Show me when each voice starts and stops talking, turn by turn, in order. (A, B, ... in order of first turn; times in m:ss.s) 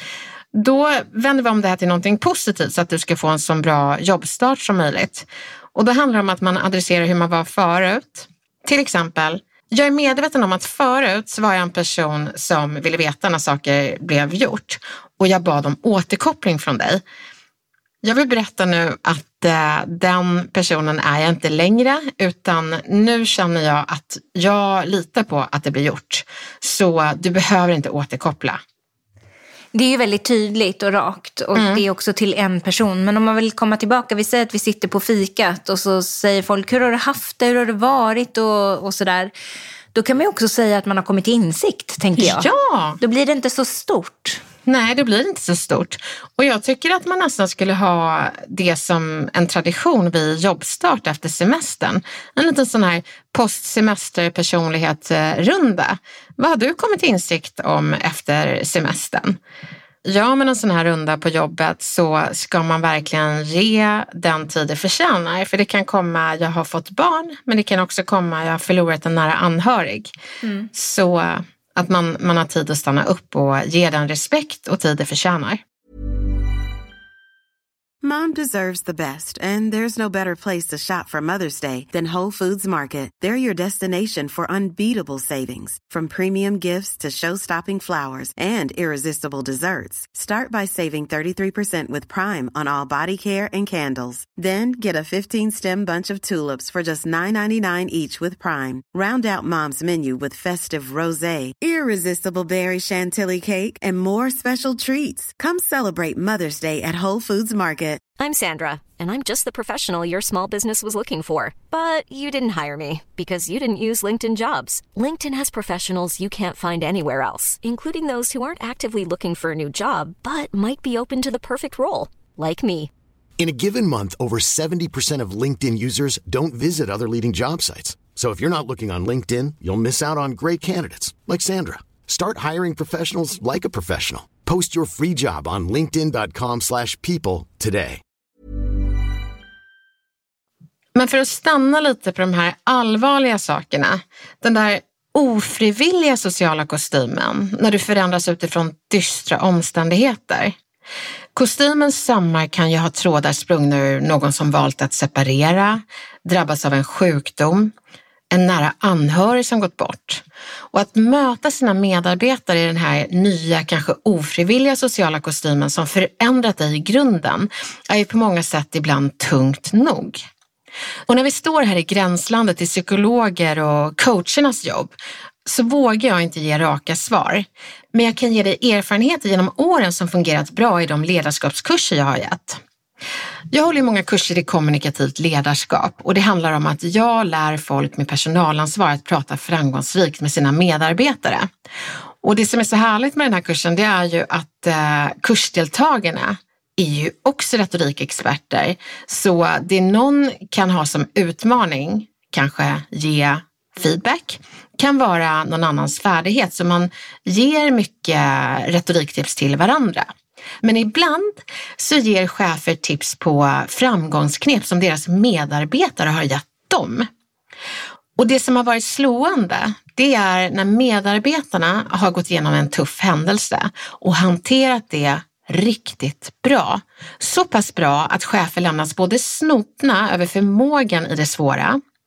0:00.5-0:17.0 A
0:18.0-0:28.6 A
0:29.7-0:39.3 B
0:31.5-0:31.8 A
0:39.9-0:42.5 B
0:42.2-0:43.0 A
0:43.0-0:44.4 B
0:44.6-0:59.4 A
1:00.0-1:10.1 A
1:10.7-1:15.6 A
1:18.0-1:48.0 C
1:48.2-2:02.9 D
2:03.4-2:18.0 E
2:20.9-2:30.6 A
2:31.3-2:37.7 A
2:38.3-2:50.3 A
2:51.1-2:54.9 A
2:55.4-3:02.6 A
3:03.5-3:11.5 A
3:12.2-3:30.1 A
3:30.6-3:37.1 A
3:38.2-3:51.8 A